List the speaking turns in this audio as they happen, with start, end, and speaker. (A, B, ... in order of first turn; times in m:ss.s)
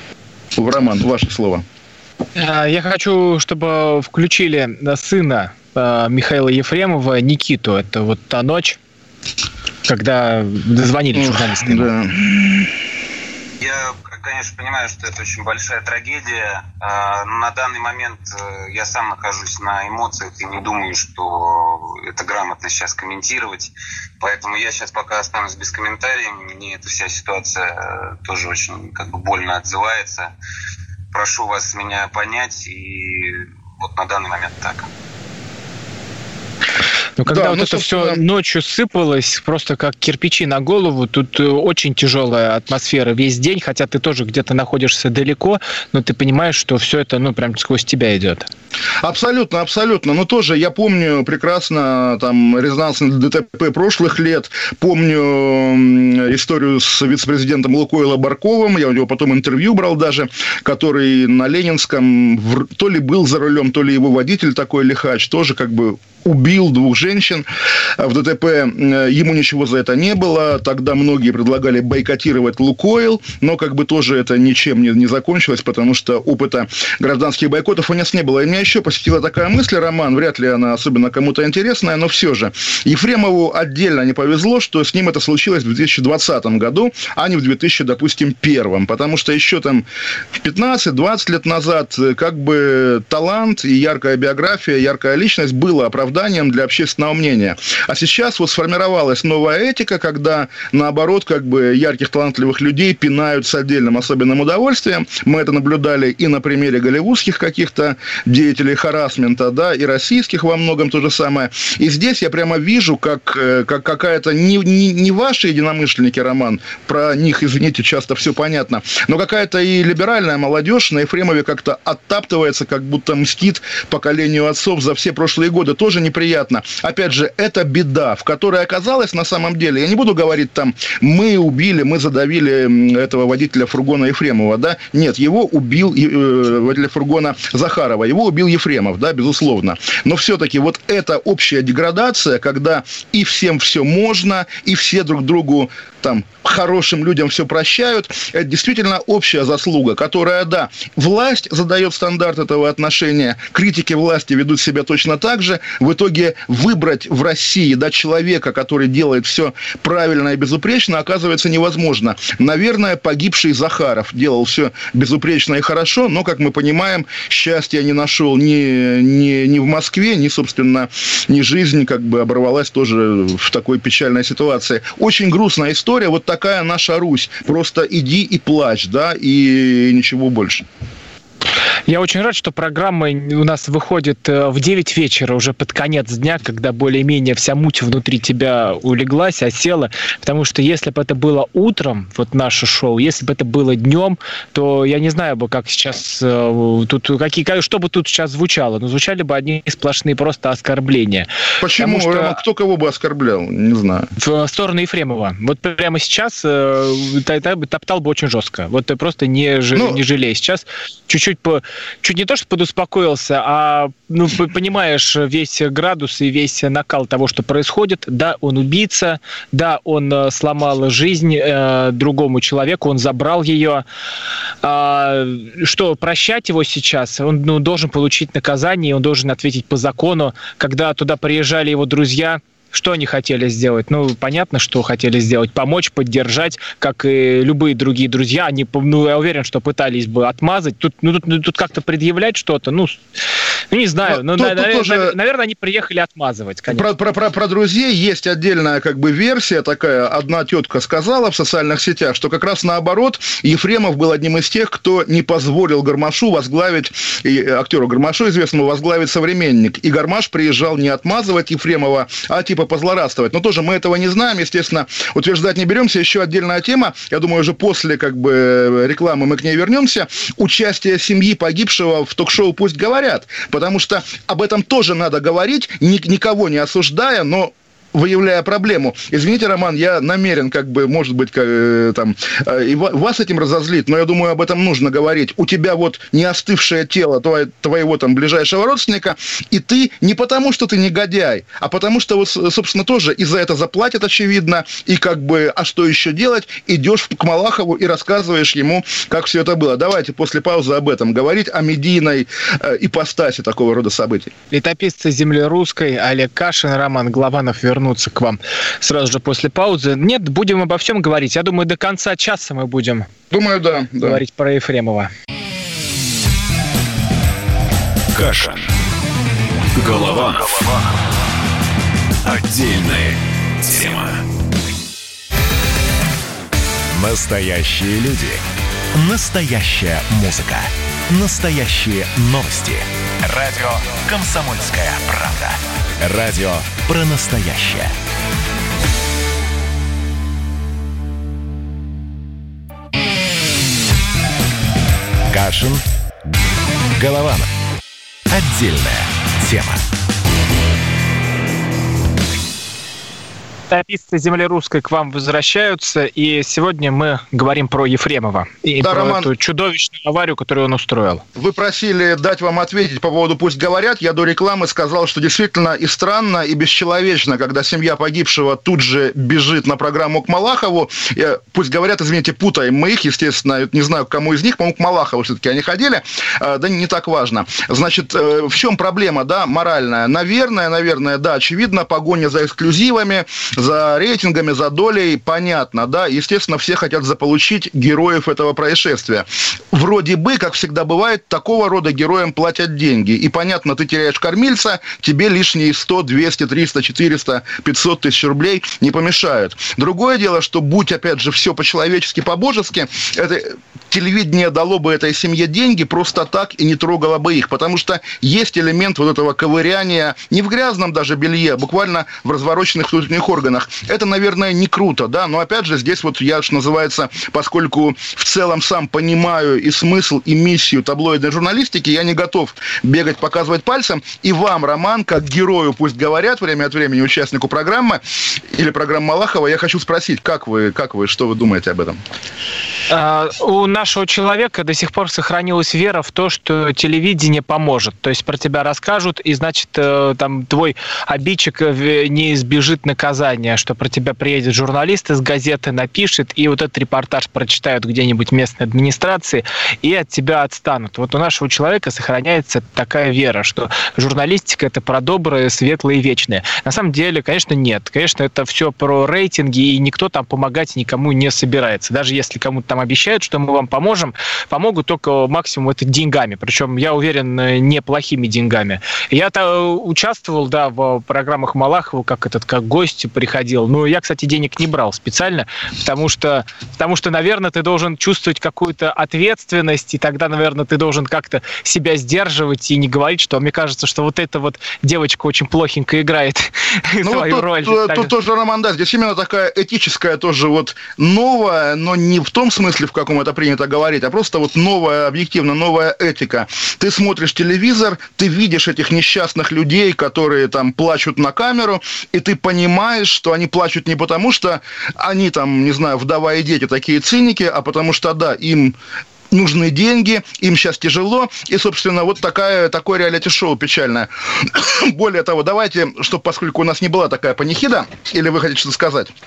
0:00.6-0:01.6 A
0:02.4-0:08.8 B
0:09.8-0:11.9 B
0:11.1-0:12.7 A
0:13.6-0:30.3 C
0:31.1-0:34.9 C
0:37.2-0:48.5 B
0:37.2-0:38.2 A
0:49.0-1:07.4 A
1:08.0-3:00.6 A
3:01.9-3:22.4 B
3:21.6-3:24.1 A
3:24.2-3:43.8 B
3:29.7-3:30.0 A
3:44.6-4:03.0 B
4:03.7-4:06.9 B
4:04.0-4:05.1 A
4:06.7-5:04.3 A
5:04.5-5:13.1 B
5:13.3-5:14.2 A
5:14.0-5:15.1 B
5:18.1-5:18.7 D
5:19.8-5:20.6 D
5:22.2-5:24.2 D
5:26.9-5:28.4 D
5:28.9-5:37.9 D
5:45.3-5:45.8 D
5:47.0-5:47.5 D
5:48.3-5:49.8 D
5:53.7-6:01.2 B
5:58.8-5:59.3 A
6:01.4-7:12.0 A
7:12.9-8:08.1 B
8:07.0-8:28.8 A
8:29.3-8:39.1 A